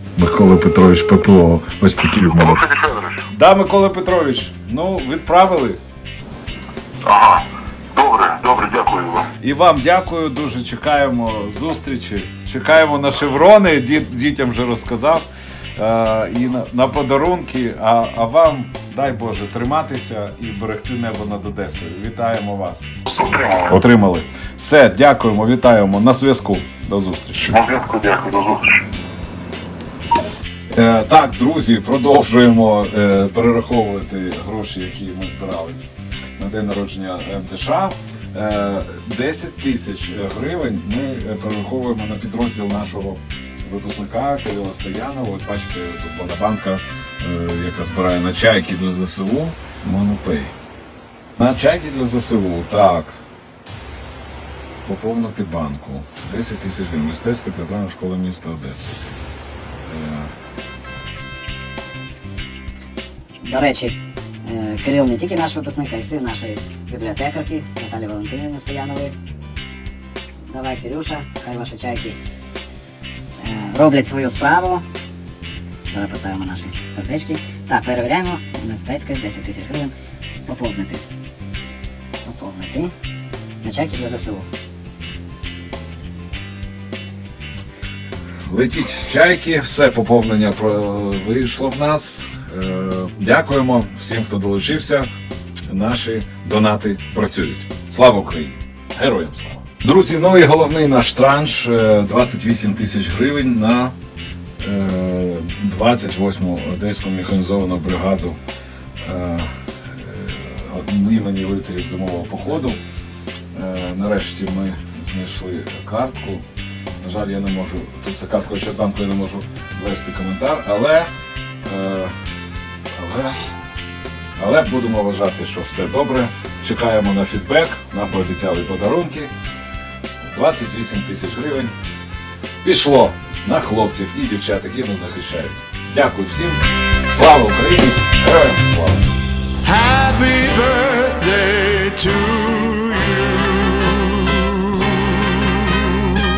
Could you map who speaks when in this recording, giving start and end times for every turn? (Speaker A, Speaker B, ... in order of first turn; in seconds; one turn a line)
Speaker A: 0.2-2.6
Speaker B: 2.3-3.2
Speaker A: 3.3-5.8
Speaker B: 7.0-9.3
Speaker A: 9.4-27.6
Speaker B: 23.2-23.7
Speaker B: 27.5-28.8
Speaker A: 30.7-35.8
Speaker A: 36.4-50.5
Speaker A: 51.4-53.2
Speaker A: 54.8-59.0
Speaker A: 59.9-60.3
Speaker C: 63.4-69.2
Speaker C: 70.5-72.2
Speaker C: 73.4-74.8
Speaker C: 75.9-79.9
Speaker C: 80.5-81.0
Speaker C: 82.2-82.9
Speaker C: 83.6-84.5
Speaker A: 88.4-95.1
Speaker A: 95.7-103.9
Speaker A: 104.6-108.4
Speaker A: 109.0-112.8
Speaker A: 113.5-116.4
Speaker A: 117.0-121.1
Speaker A: 121.7-122.1
Speaker A: 122.9-123.4
Speaker A: 124.4-129.3
Speaker A: 130.2-131.7
Speaker A: 132.6-139.1
Speaker D: 139.6-146.1